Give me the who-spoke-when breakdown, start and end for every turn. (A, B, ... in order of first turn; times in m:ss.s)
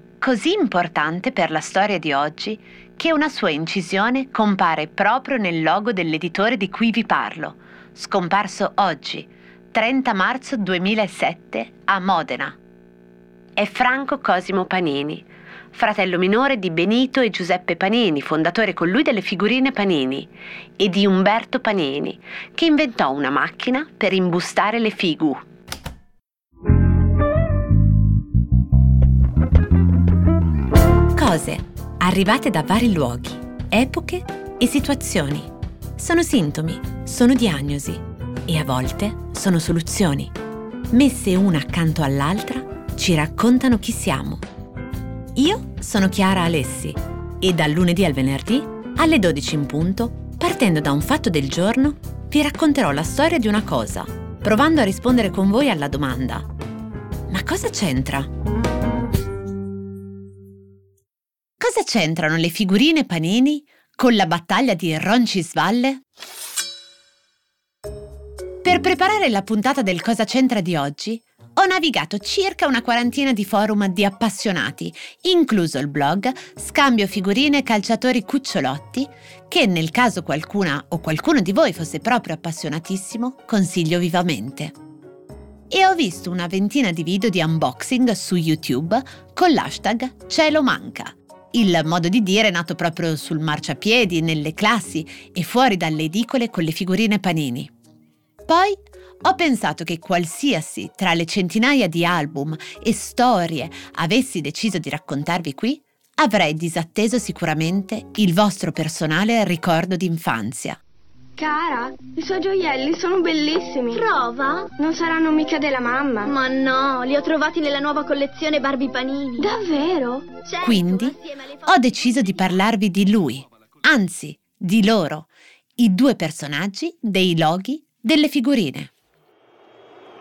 0:00.2-0:12.6 A
0:13.6-0:25.4 A
0:31.1-0:40.3 A
0:40.9-0:44.4 A
0:45.4-0:56.5 A
0:57.3-0:58.3 A
1:01.6-1:06.0 A
1:08.6-1:24.7 A
1:25.7-1:37.7 A
1:38.5-1:50.8 A
1:51.4-1:54.0 B
1:54.0-1:54.6 C
1:54.8-1:56.3 B
1:56.4-1:59.4 C
1:59.4-2:00.4 B
2:00.6-2:08.9 A